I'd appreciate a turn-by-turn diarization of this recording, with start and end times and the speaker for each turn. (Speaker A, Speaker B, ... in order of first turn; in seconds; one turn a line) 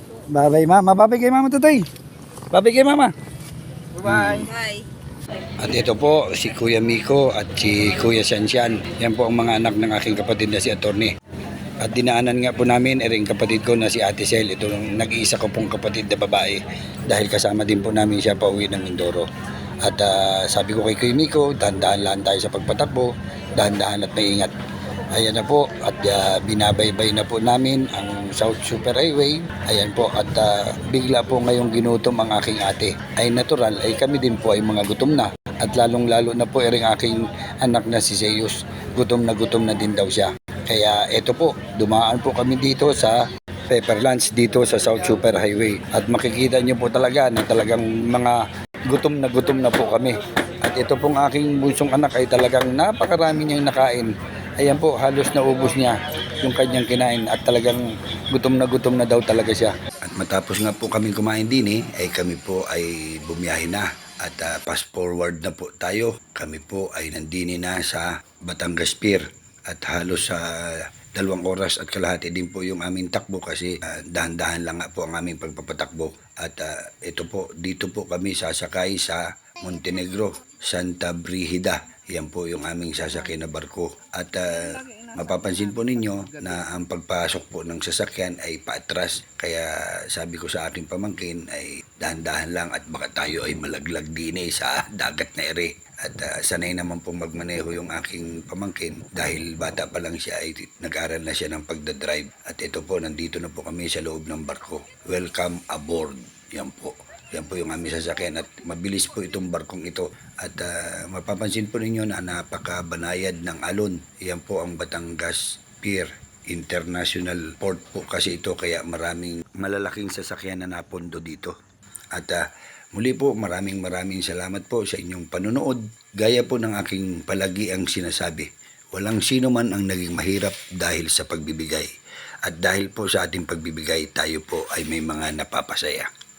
Speaker A: 0.3-1.9
Speaker A: 2.5-3.1
Speaker A: 4.0-4.6
Speaker A: 5.6-11.1
Speaker A: 11.8-19.3
Speaker A: 19.8-24.5
Speaker A: 25.1-121.5
Speaker A: 122.1-131.9
Speaker A: 132.4-136.1